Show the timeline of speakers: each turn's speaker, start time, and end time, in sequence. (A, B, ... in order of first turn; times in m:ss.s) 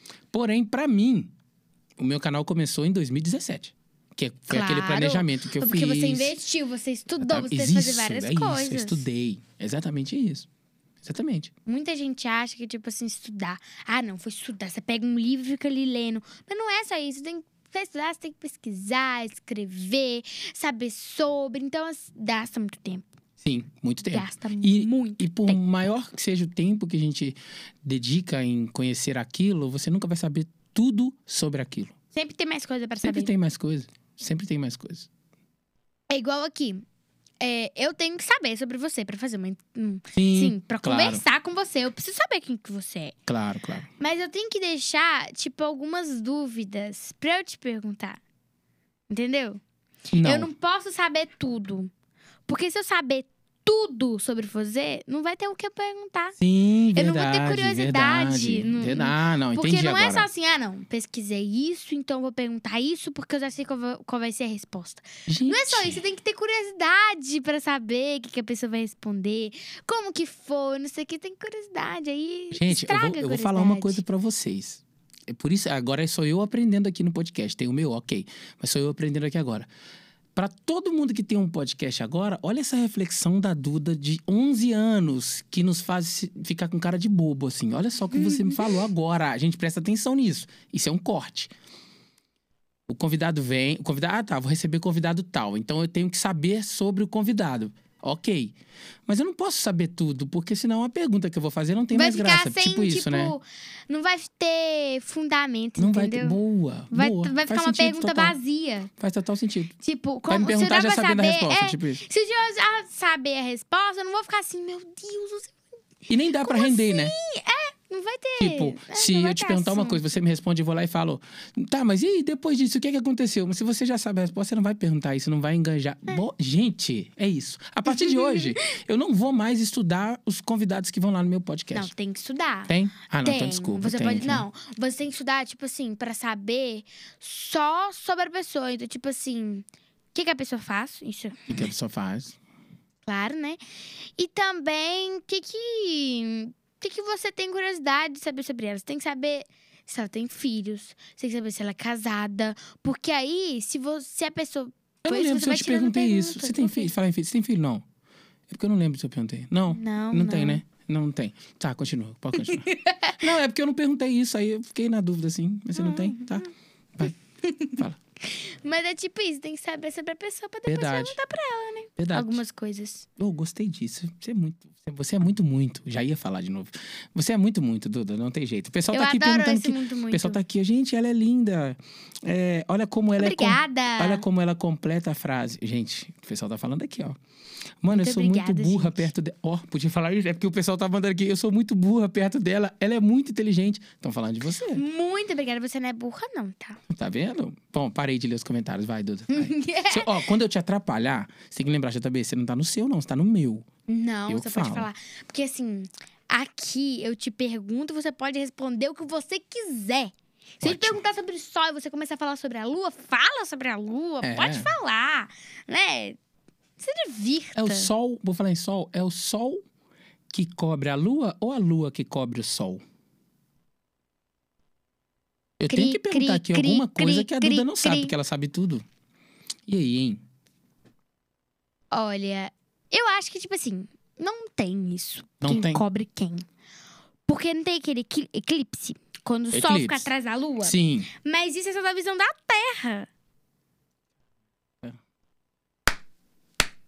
0:00.3-0:01.3 A
0:02.0-0:06.3 A
0:04.5-0:09.0 B
0:07.2-0:10.5 A
0:11.0-0:11.5 A
0:11.6-0:23.1 B
0:23.4-0:31.9 A
0:24.0-0:25.6 B
0:32.1-0:33.3 B
0:33.0-0:35.1 A
0:36.1-0:36.8 B
0:37.4-0:43.1 B
0:40.2-0:41.2 A
0:43.3-0:43.9 A
0:44.0-0:48.2 B
0:49.1-0:49.6 B
0:50.1-0:50.5 A
0:50.2-0:51.9 B
0:52.5-0:56.4 B
0:56.4-1:00.3 A
0:56.9-1:14.0 B
1:05.3-1:06.0 A
1:12.5-1:19.7 A
1:20.4-1:31.5 A
1:28.1-1:28.8 B
1:32.9-1:38.5 A
1:39.1-1:43.3 A
1:41.9-1:46.4 B
1:45.8-1:48.4 A
1:46.9-1:48.9 B
1:49.0-1:49.7 A
1:49.8-1:55.6 B
1:50.3-1:52.0 A
1:56.1-1:57.1 A
1:56.4-2:00.0 B
1:58.4-2:11.9 A
2:07.9-2:08.4 B
2:11.7-2:21.6 B
2:12.7-2:14.4 A
2:21.5-2:22.4 A
2:23.0-2:23.6 B
2:24.2-2:36.9 B
2:35.0-2:37.8 A
2:38.5-2:42.7 A
2:39.7-2:40.6 B
2:42.4-2:43.2 B
2:43.2-2:47.1 A
2:45.8-2:46.5 B
2:47.4-2:53.0 B
2:50.6-2:51.2 A
2:52.0-2:52.4 A
2:53.2-3:07.2 A
2:58.9-3:00.4 B
3:03.2-3:04.2 B
3:07.8-3:14.8 A
3:07.9-3:09.1 B
3:14.7-3:16.8 B
3:16.9-3:23.6 A
3:19.3-3:20.3 B
3:23.9-3:36.2 B
3:24.3-3:24.9 A
3:30.6-3:31.0 A
3:34.2-3:34.7 A
3:36.8-3:37.9 B
3:37.5-3:39.6 A
3:40.3-3:42.8 A
3:45.6-3:48.8 A
3:45.7-3:48.1 B
3:49.7-3:50.2 A
3:51.9-3:56.4 B
3:55.4-3:55.8 A
3:57.3-4:03.1 B
3:59.5-4:00.1 A
4:00.6-4:01.1 A